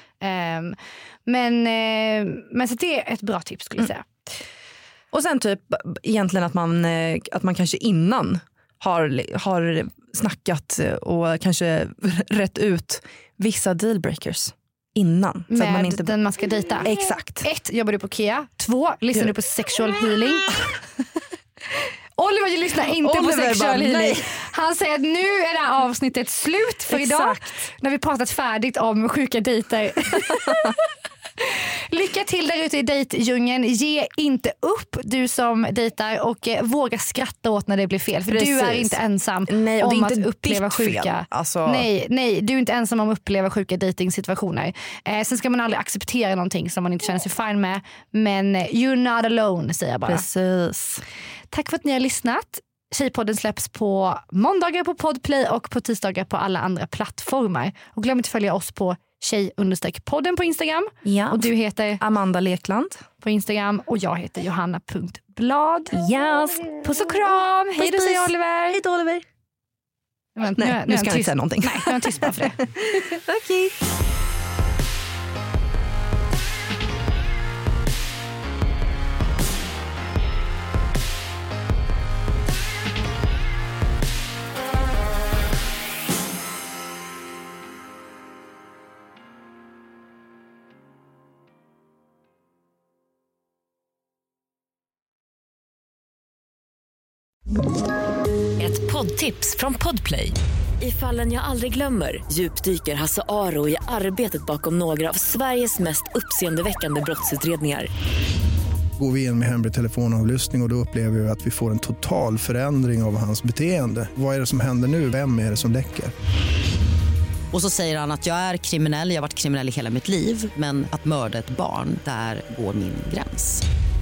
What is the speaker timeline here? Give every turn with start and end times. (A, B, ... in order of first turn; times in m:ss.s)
0:00.2-0:04.1 A
0:05.1-0:16.2 B
0:15.5-0:16.9 A
0:16.8-0:17.5 B
0:17.4-0:20.7 A
0:22.2-0:30.8 A
0:23.0-0:24.4 B
0:26.9-0:27.6 B
0:30.3-0:30.7 B
0:31.4-0:50.2 A
0:38.3-0:41.9 B
0:50.1-0:51.0 B
0:51.5-1:02.0 A
1:01.0-1:03.1 B
1:03.2-1:06.0 A
1:05.9-1:06.9 B
1:06.8-1:08.8 A
1:07.8-1:09.2 B
1:10.4-1:12.6 A
1:10.6-1:13.8 B
1:38.6-1:47.9 C
1:49.0-1:56.1 D
1:57.5-2:03.6 E